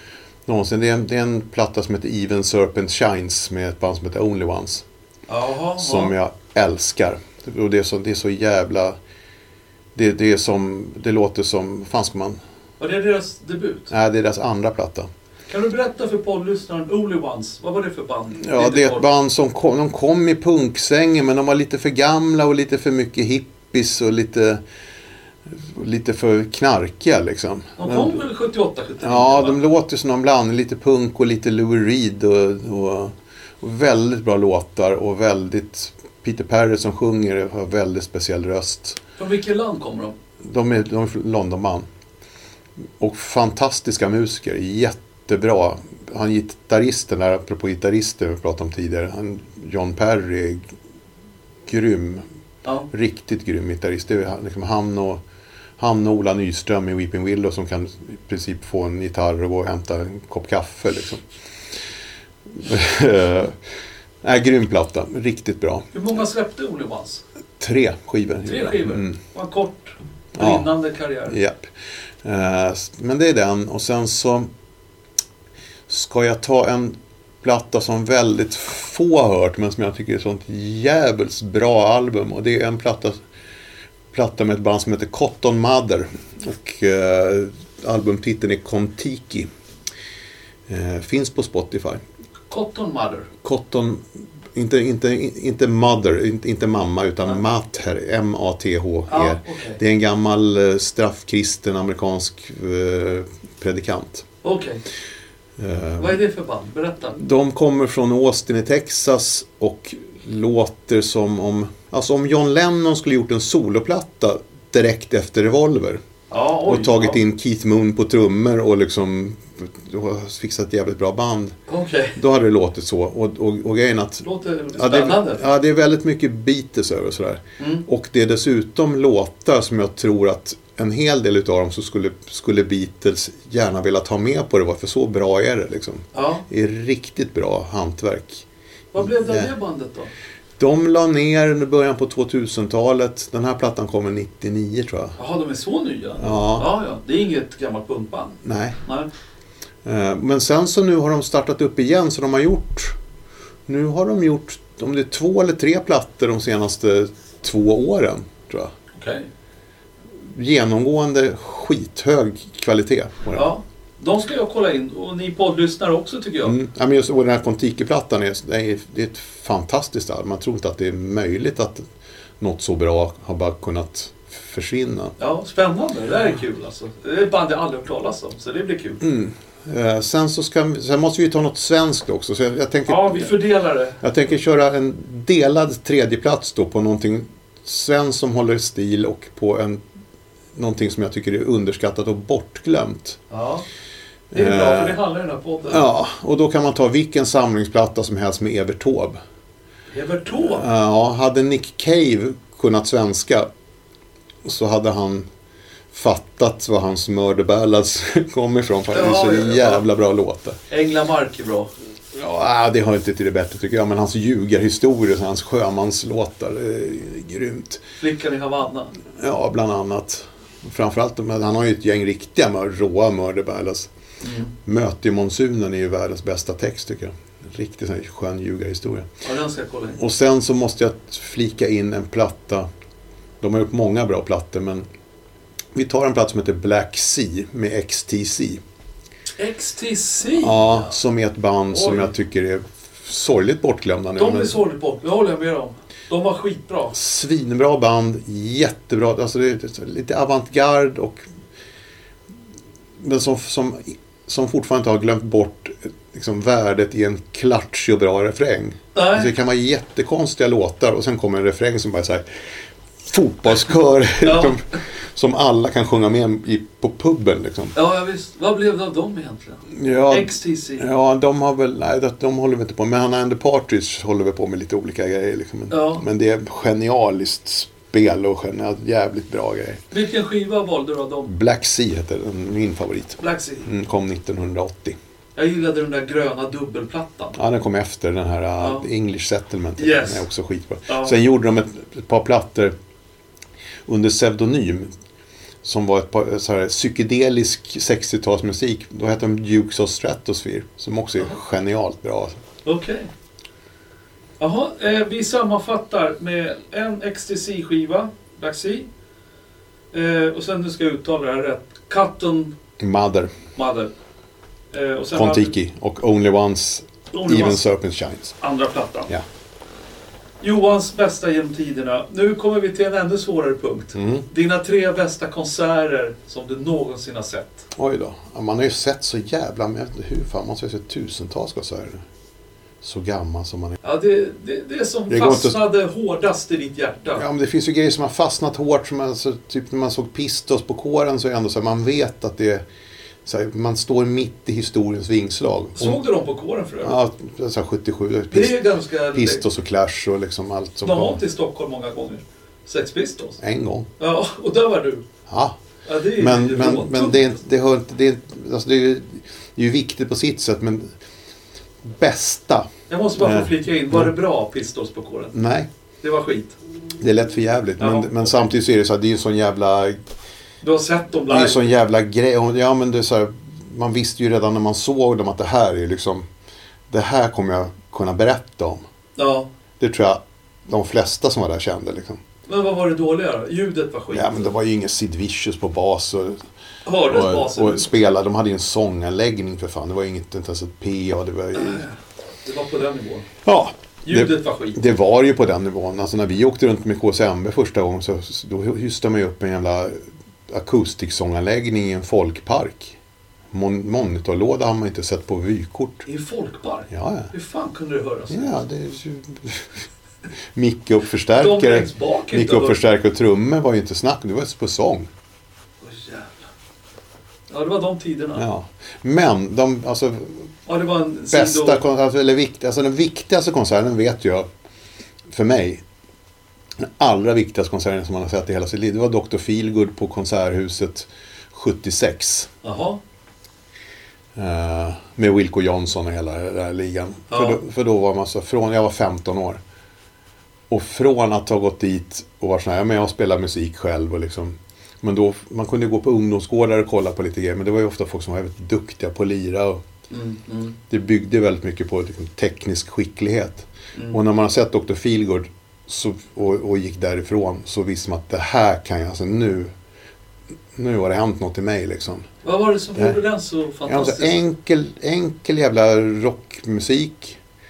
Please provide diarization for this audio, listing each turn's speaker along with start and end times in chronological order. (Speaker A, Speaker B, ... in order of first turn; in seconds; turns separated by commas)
Speaker A: 0.5-4.8, Speaker B: 5.3-6.1, Speaker A: 5.8-9.0, Speaker A: 9.9-12.4, Speaker B: 12.8-13.9, Speaker A: 13.9-15.1, Speaker B: 15.5-19.0, Speaker A: 18.4-24.6, Speaker A: 25.5-28.2, Speaker B: 27.8-29.6, Speaker A: 29.0-39.0, Speaker B: 39.2-40.1, Speaker A: 40.4-41.9, Speaker A: 43.0-50.7, Speaker A: 51.6-52.2, Speaker A: 52.9-55.2, Speaker A: 55.8-61.2, Speaker A: 62.5-63.6, Speaker A: 64.2-65.9, Speaker B: 65.9-67.2, Speaker A: 67.6-69.2, Speaker B: 68.4-71.4, Speaker A: 70.3-70.7, Speaker A: 71.3-71.7, Speaker A: 72.2-74.5, Speaker A: 75.9-83.2, Speaker A: 84.1-89.5, Speaker A: 90.7-92.0, Speaker B: 92.5-93.3, Speaker A: 93.4-104.3, Speaker B: 99.1-99.8, Speaker B: 104.4-104.8, Speaker A: 105.6-106.2, Speaker B: 106.0-107.2, Speaker A: 107.1-116.0, Speaker B: 116.3-117.2, Speaker A: 116.7-121.6, Speaker B: 121.7-122.2, Speaker A: 122.1-139.5, Speaker B: 124.2-125.4, Speaker B: 127.6-127.8, Speaker B: 136.1-136.4, Speaker B: 138.9-140.1, Speaker A: 140.6-145.2, Speaker B: 145.2-149.1, Speaker A: 146.2-146.7, Speaker A: 148.4-148.8, Speaker A: 149.8-152.9, Speaker A: 153.7-158.7, Speaker B: 158.9-159.3, Speaker A: 160.2-163.5, Speaker B: 163.3-166.6, Speaker A: 166.4-171.9, Speaker A: 172.4-175.1, Speaker B: 175.2-179.0, Speaker A: 179.0-183.3, Speaker B: 182.8-184.0, Speaker A: 184.0-189.8, Speaker A: 190.5-193.2, Speaker B: 193.3-193.7, Speaker A: 194.3-195.0, Speaker B: 194.3-195.9, Speaker A: 195.7-199.2, Speaker B: 199.9-200.6, Speaker A: 200.4-203.5, Speaker A: 204.4-205.3, Speaker A: 205.9-210.6, Speaker B: 208.9-209.8, Speaker B: 210.7-211.7, Speaker A: 212.1-217.8, Speaker B: 218.0-218.9, Speaker A: 219.1-223.9, Speaker B: 224.2-224.5, Speaker A: 224.6-229.1, Speaker B: 229.2-230.0, Speaker A: 230.0-232.7, Speaker A: 233.4-234.8, Speaker A: 235.7-238.6, Speaker B: 239.4-240.9, Speaker A: 240.3-244.6, Speaker B: 241.7-242.1, Speaker B: 244.2-246.9, Speaker A: 246.9-251.2, Speaker A: 253.0-262.2, Speaker B: 258.9-259.3, Speaker A: 263.0-267.7, Speaker B: 264.2-264.6, Speaker B: 267.7-270.9, Speaker A: 269.7-279.8, Speaker B: 275.7-276.0, Speaker B: 279.9-281.3, Speaker A: 281.2-285.0, Speaker B: 283.2-283.7, Speaker B: 285.4-287.4, Speaker A: 287.3-292.7, Speaker B: 288.6-288.9, Speaker B: 289.8-290.2, Speaker B: 290.9-291.1, Speaker A: 293.8-294.9, Speaker A: 295.6-302.4, Speaker B: 302.6-303.1, Speaker B: 304.4-308.9, Speaker B: 309.9-312.6, Speaker A: 312.8-313.4, Speaker B: 313.5-313.9, Speaker B: 314.7-315.5, Speaker A: 315.1-318.4, Speaker B: 317.1-317.6, Speaker B: 318.4-319.1, Speaker B: 320.4-327.7, Speaker A: 323.9-324.2, Speaker A: 327.7-332.0, Speaker A: 332.8-333.8, Speaker B: 333.8-337.2, Speaker A: 335.1-335.6, Speaker A: 337.1-342.6, Speaker A: 343.2-346.0, Speaker B: 345.8-347.0, Speaker A: 346.8-351.2, Speaker B: 348.3-349.4, Speaker B: 350.8-353.4, Speaker A: 353.4-353.9, Speaker B: 354.0-355.0, Speaker A: 355.3-355.6, Speaker B: 355.8-357.3, Speaker A: 356.1-360.9, Speaker A: 361.8-364.1, Speaker B: 362.9-365.4, Speaker A: 365.3-365.7, Speaker B: 366.0-366.6, Speaker A: 367.0-370.0, Speaker B: 367.8-368.4, Speaker B: 370.6-371.7, Speaker A: 371.3-376.3, Speaker A: 376.9-378.8, Speaker B: 379.2-379.5, Speaker A: 379.8-382.2, Speaker B: 382.5-384.5, Speaker A: 384.1-386.4, Speaker B: 386.9-387.9, Speaker A: 387.0-391.8, Speaker B: 391.5-393.3, Speaker A: 393.4-403.0, Speaker B: 394.0-394.8, Speaker A: 403.5-406.1, Speaker B: 406.1-408.6, Speaker A: 406.9-407.3, Speaker A: 408.3-409.8, Speaker A: 410.5-415.1, Speaker B: 411.4-412.8, Speaker B: 415.8-416.5, Speaker B: 417.5-418.4, Speaker A: 418.4-420.5, Speaker B: 420.7-421.8, Speaker A: 421.3-424.5, Speaker A: 425.3-425.8, Speaker A: 426.8-432.5, Speaker B: 432.6-433.0, Speaker A: 434.3-439.6, Speaker B: 437.3-437.6, Speaker A: 440.7-449.8, Speaker B: 450.1-450.8, Speaker A: 450.9-459.7, Speaker B: 453.9-454.2, Speaker A: 460.7-462.3, Speaker B: 462.4-464.4, Speaker A: 463.9-467.4